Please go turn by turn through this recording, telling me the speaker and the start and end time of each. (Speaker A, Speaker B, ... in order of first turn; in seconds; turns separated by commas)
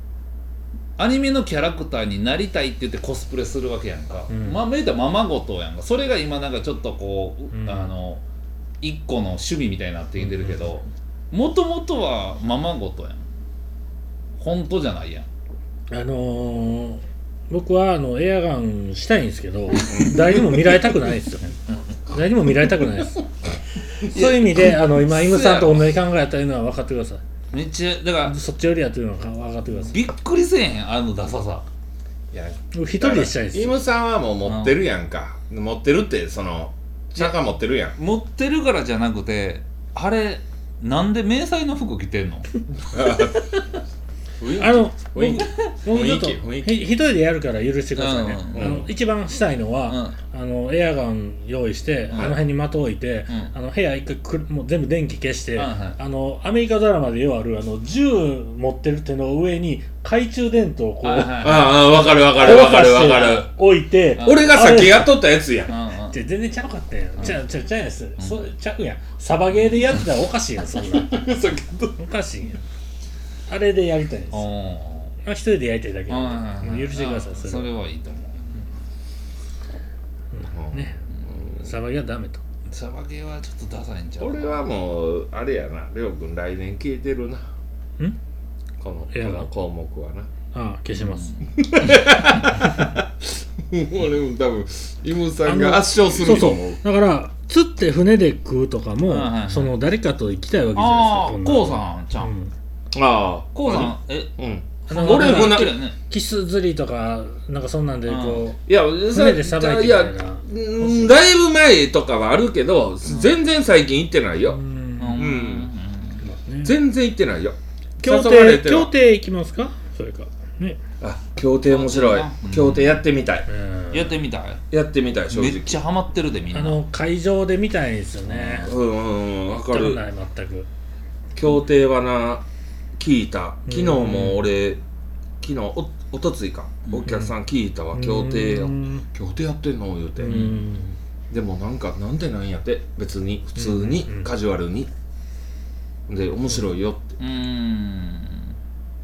Speaker A: 1.0-8.2, Speaker B: 4.3-4.6, Speaker B: 7.5-7.9, Speaker A: 8.8-13.2, Speaker A: 14.4-15.2, Speaker B: 15.9-21.5, Speaker B: 22.1-23.2, Speaker B: 24.0-27.2, Speaker A: 24.1-25.9, Speaker A: 27.5-28.4, Speaker B: 28.2-30.0, Speaker A: 29.7-31.6, Speaker C: 32.3-37.9, Speaker B: 32.7-33.8, Speaker A: 34.4-34.8, Speaker A: 38.0-42.5, Speaker C: 42.8-43.5, Speaker C: 44.4-46.8, Speaker B: 44.6-65.1, Speaker A: 48.0-48.9, Speaker C: 48.5-48.9, Speaker A: 49.9-50.2, Speaker C: 52.1-52.4, Speaker A: 55.6-56.0, Speaker A: 61.0-63.4, Speaker C: 61.4-63.5, Speaker C: 64.2-65.7, Speaker A: 64.2-64.5, Speaker A: 65.7-66.1, Speaker B: 66.1-71.3, Speaker C: 71.0-72.0, Speaker B: 72.0-72.6, Speaker B: 73.5-74.5, Speaker A: 74.3-75.1, Speaker B: 75.2-77.7, Speaker A: 76.1-78.7, Speaker B: 80.3-82.4, Speaker C: 80.5-80.9, Speaker A: 82.7-84.6, Speaker C: 84.2-87.4, Speaker C: 88.8-90.3, Speaker B: 89.1-89.5, Speaker B: 90.5-91.4, Speaker A: 91.0-92.0, Speaker C: 91.6-93.1, Speaker C: 93.6-96.8, Speaker B: 95.4-102.5, Speaker A: 99.1-99.7, Speaker A: 100.7-102.3, Speaker C: 102.9-105.8, Speaker A: 103.5-104.3, Speaker A: 104.9-106.0, Speaker B: 104.9-108.6, Speaker A: 108.0-108.5, Speaker C: 108.7-114.6, Speaker B: 109.1-111.1, Speaker B: 114.5-115.2, Speaker A: 115.0-116.2, Speaker C: 115.1-115.7, Speaker B: 116.2-116.8, Speaker C: 116.6-118.9, Speaker B: 118.0-120.8, Speaker C: 121.0-123.5, Speaker A: 121.7-123.0, Speaker B: 123.5-124.2, Speaker A: 123.9-124.6, Speaker C: 124.7-125.7, Speaker A: 125.3-126.8, Speaker B: 126.5-128.7, Speaker A: 128.2-128.7, Speaker C: 128.6-130.0, Speaker B: 129.7-130.7, Speaker C: 131.3-132.4, Speaker C: 133.0-134.8, Speaker B: 133.7-134.4, Speaker C: 135.4-140.4, Speaker B: 137.0-137.3, Speaker B: 137.9-139.0, Speaker B: 140.2-140.9, Speaker A: 140.2-140.7, Speaker C: 141.3-144.9, Speaker B: 143.6-144.3, Speaker C: 146.1-147.2, Speaker A: 147.2-148.5